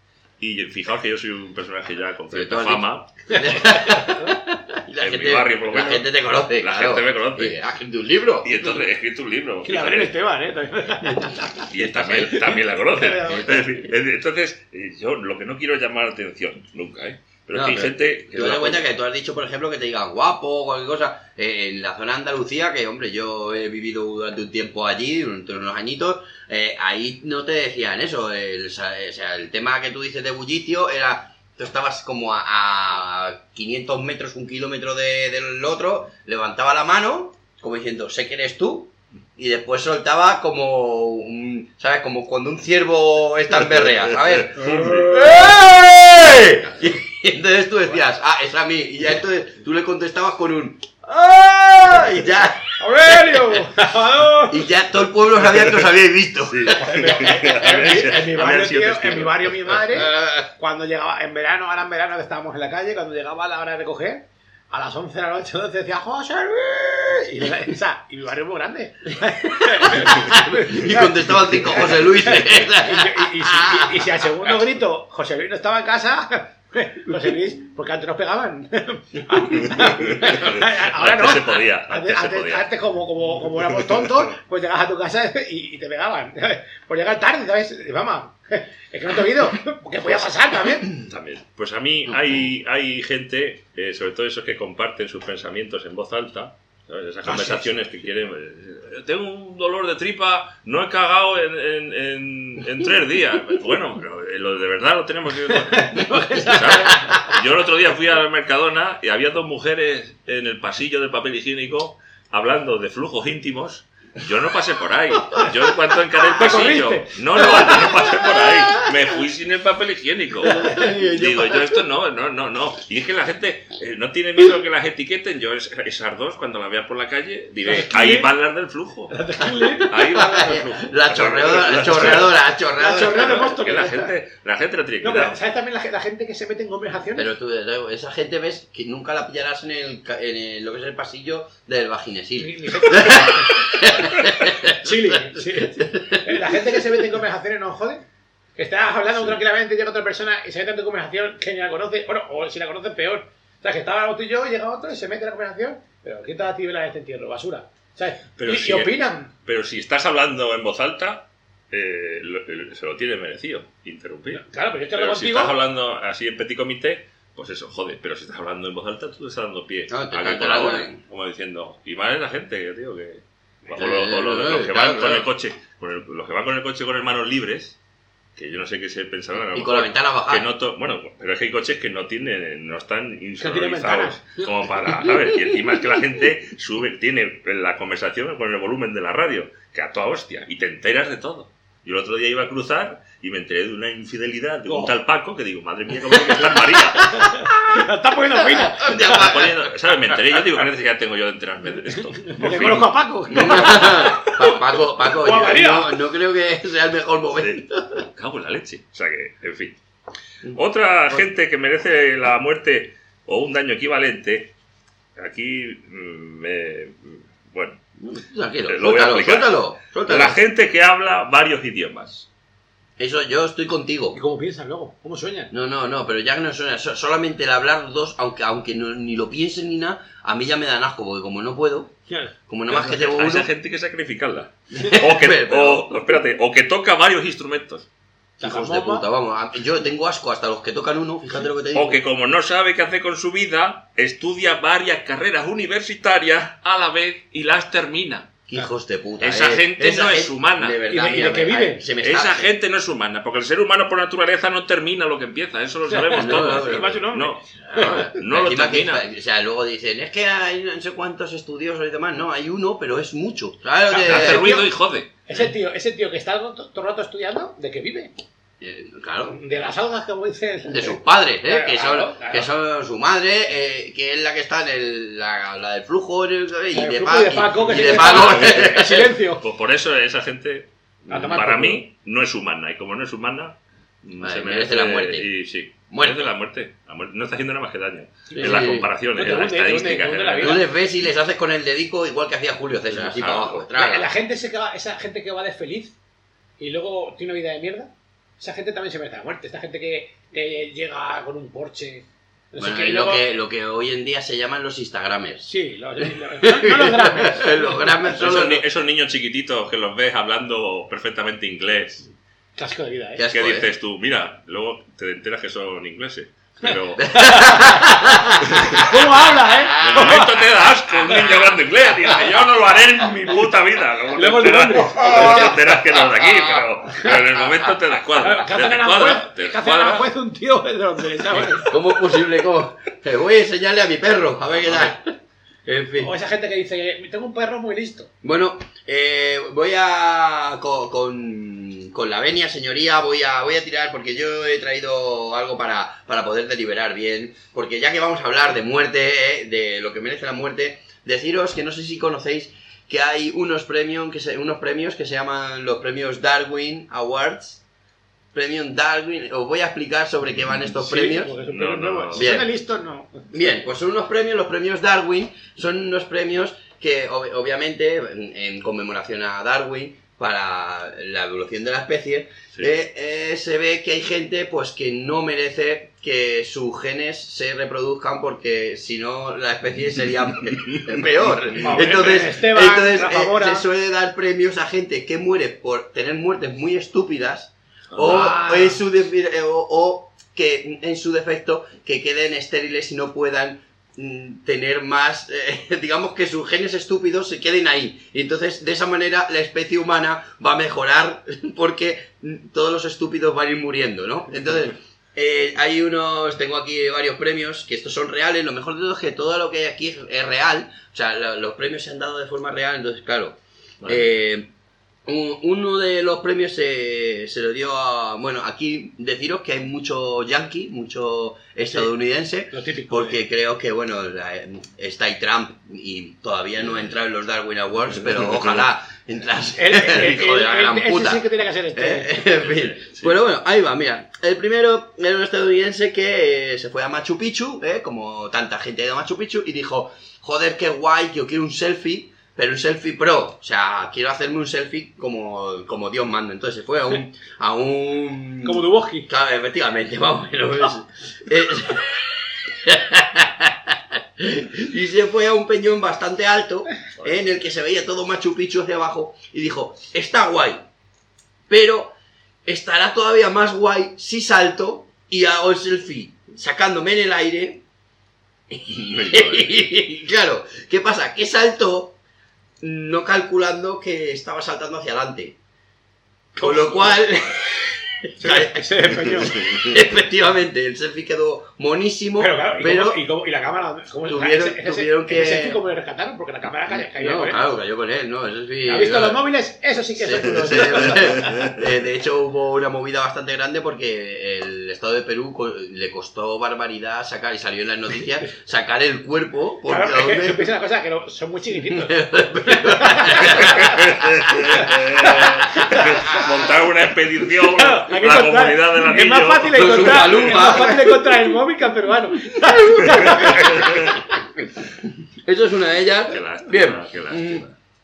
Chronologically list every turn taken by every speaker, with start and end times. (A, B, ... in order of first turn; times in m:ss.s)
0:00.4-0:03.4 A
0:02.3-0:08.8 B
0:03.4-0:04.2 C
0:05.0-0:07.6 A
0:08.4-0:10.2 A
0:09.6-0:11.7 C
0:11.7-0:18.8 A
0:11.7-0:12.5 B
0:12.9-0:13.7 C
0:17.5-0:53.1 B
0:44.6-0:45.0 A
0:44.6-0:45.3 C
0:52.8-0:54.6 C
0:54.5-0:56.8 B
0:55.5-0:55.8 A
0:56.5-0:59.8 A
0:56.8-1:30.9 C
0:59.9-1:00.5 B
1:09.8-1:14.0 B
1:19.8-1:22.7 A
1:30.9-2:12.3 A
1:37.2-1:37.7 C
1:45.6-1:47.4 C
1:56.4-1:58.8 C
2:00.5-2:00.8 C
2:00.6-2:01.8 B
2:07.6-2:08.3 C
2:09.1-2:10.3 C
2:09.9-2:13.5 B
2:12.8-2:14.1 C
2:13.3-2:15.4 A
2:15.0-2:17.3 C
2:17.2-2:24.8 B
2:22.4-2:24.1 C
2:24.6-2:28.0 C
2:25.4-2:26.8 B
2:28.6-2:39.3 C
2:38.4-2:57.8 A
2:44.3-2:45.6 C
2:49.9-2:51.0 B
2:53.8-2:55.3 B
2:58.4-3:17.2 A
2:59.5-3:00.5 B
3:03.4-3:05.2 C
3:14.7-3:14.9 C
3:17.0-3:19.3 C
3:18.3-3:19.6 B
3:19.1-3:23.0 A
3:22.2-3:24.4 C
3:23.3-3:28.0 B
3:25.2-3:26.0 C
3:27.4-3:29.8 A
3:30.5-3:34.5 A
3:35.2-3:37.8 A
3:38.0-3:40.4 B
3:38.7-3:42.3 A
3:43.0-3:44.2 B
3:44.1-3:45.5 C
3:45.5-3:52.0 B
3:52.1-3:52.9 C
3:52.5-3:53.5 B
3:53.0-3:57.9 A
3:54.8-3:56.0 B
3:58.4-3:59.1 C
3:58.4-4:02.0 B
4:01.7-4:08.3 A
4:08.5-4:12.5 B
4:09.2-4:10.8 A
4:10.9-4:11.8 C
4:12.0-4:19.0 A
4:15.9-4:18.0 C
4:16.1-4:17.0 B
4:17.6-4:24.5 B
4:23.9-4:24.7 C
4:24.0-4:25.4 A
4:25.3-4:28.1 C
4:28.6-4:29.4 B
4:29.3-4:32.5 C
4:30.7-4:39.1 B
4:36.7-4:39.4 C
4:37.7-4:50.6 A
4:41.1-4:41.8 C
4:44.2-4:45.3 B
4:45.9-4:46.3 B
4:48.3-4:50.6 C
4:48.4-4:48.9 B
4:50.4-4:54.1 B
4:53.0-4:53.6 A
4:53.8-4:56.0 C
4:56.6-5:03.2 C
5:02.6-5:05.5 B
5:05.5-5:07.8 C
5:06.2-5:08.6 B
5:08.1-5:12.1 A
5:12.6-5:13.2 C
5:13.2-5:13.7 B
5:13.3-5:17.2 A
5:17.0-5:20.2 B
5:17.2-5:17.9 C
5:18.8-5:20.4 C
5:19.8-5:30.1 A
5:21.1-5:21.5 C
5:24.2-5:25.7 C
5:25.2-5:25.5 B
5:28.2-5:31.7 C
5:31.6-5:35.1 B
5:35.7-5:36.1 B
5:36.0-5:38.1 C
5:38.2-5:57.6 B
5:58.3-6:01.3 B
6:00.8-6:03.3 C
6:01.4-6:02.4 A
6:02.2-6:02.5 B
6:03.3-6:54.5 B
6:21.6-6:23.7 C
6:27.9-6:28.3 A
6:28.0-6:28.8 C
6:53.8-6:54.1 A
6:55.0-7:40.7 B
7:02.5-7:03.2 C
7:09.6-7:12.2 C
7:12.4-7:13.2 A
7:28.4-7:29.1 C
7:41.5-7:42.0 B
7:42.5-7:47.6 B
7:48.5-7:52.0 B
7:48.9-7:49.5 A
7:52.6-7:55.4 B
7:56.4-8:03.0 B
7:56.4-7:56.9 C
7:58.2-7:59.4 C
8:02.2-8:07.4 C
8:04.1-8:05.6 B
8:06.7-8:09.2 B
8:08.7-8:11.3 C
8:10.0-8:20.5 B
8:19.7-8:23.8 C
8:21.7-8:24.3 B
8:23.4-8:30.6 A
8:25.6-8:25.9 C
8:27.5-8:34.0 C
8:29.5-8:31.1 B
8:32.8-8:33.8 B
8:33.4-8:33.9 A
8:35.2-8:37.4 B
8:36.1-8:37.6 A